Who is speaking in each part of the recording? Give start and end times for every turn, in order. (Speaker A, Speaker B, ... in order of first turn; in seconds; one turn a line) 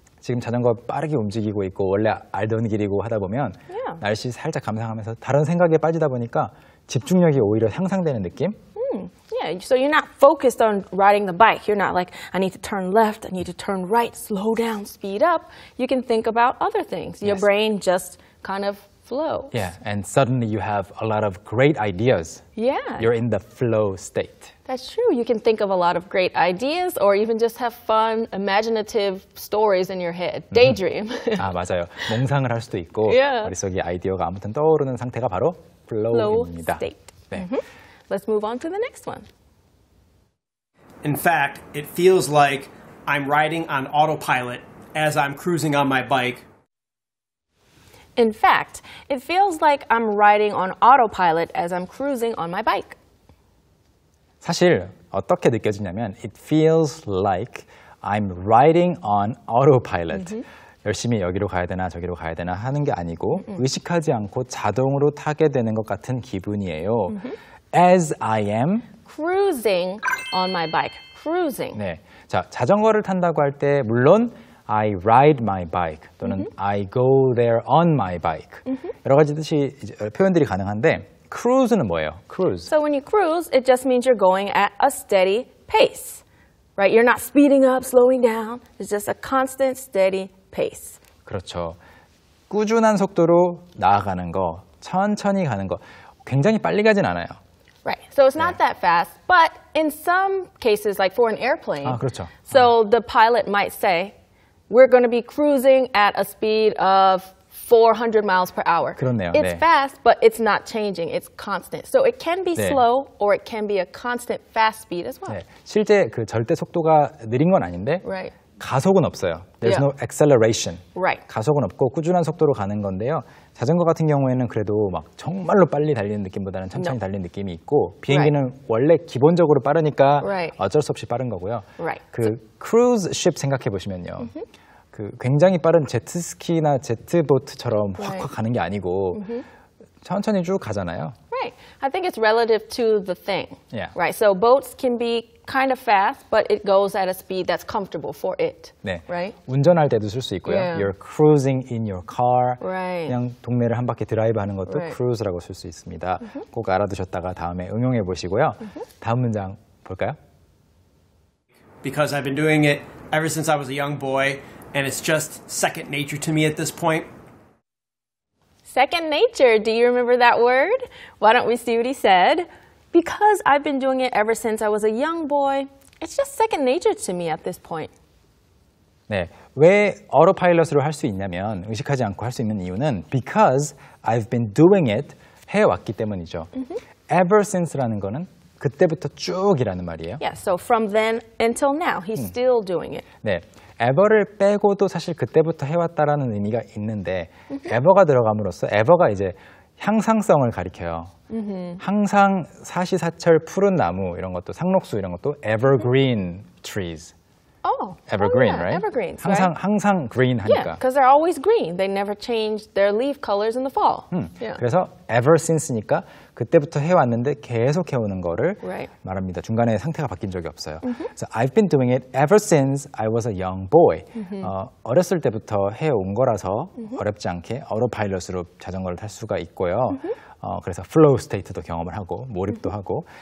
Speaker A: 0.2-8.6
Speaker B: 3.7-4.0
Speaker B: 8.8-19.5
Speaker A: 19.5-22.4
Speaker B: 22.6-23.1
Speaker A: 23.0-24.5
Speaker B: 24.6-31.5
Speaker A: 31.4-37.5
Speaker B: 33.0-33.5
Speaker B: 36.1-39.2
Speaker C: 41.0-46.4
Speaker B: 48.1-53.0
Speaker A: 54.4-67.2
Speaker B: 60.1-60.4
Speaker B: 67.1-67.3
Speaker A: 67.7-68.9
Speaker B: 69.0-71.8
Speaker A: 71.7-82.7
Speaker B: 82.7-86.2
Speaker B: 86.8-91.0
Speaker A: 91.2-91.8
Speaker A: 92.5-97.4
Speaker B: 97.8-104.1
Speaker A: 101.8-102.6
Speaker B: 104.7-115.4
Speaker A: 109.0-109.6
Speaker A: 112.5-112.8
Speaker A: 115.3-118.0
Speaker B: 118.0-118.3
Speaker A: 118.6-134.3
Speaker B: 120.9-121.2
Speaker B: 130.2-130.6
Speaker B: 131.8-132.3
Speaker A: 134.9-139.2
Speaker B: 138.0-138.3
Speaker B: 139.1-139.4
Speaker A: 140.0-141.2
Speaker B: 141.3-149.3
Speaker A: 148.8-160.2
Speaker B: 150.4-150.9
Speaker B: 152.6-153.2
Speaker B: 154.7-154.9
Speaker C: 161.8-167.1
Speaker B: 168.7-177.9
Speaker A: 179.1-186.5
Speaker A: 187.1-190.2
Speaker B: 190.2-193.0
Speaker A: 193.2-201.1
Speaker B: 201.3-201.8
Speaker A: 201.8-207.1
Speaker B: 207.6-209.5
Speaker A: 208.1-210.8
Speaker B: 210.4-214.6
Speaker A: 214.1-233.1
Speaker B: 218.6-218.9
Speaker B: 224.2-224.5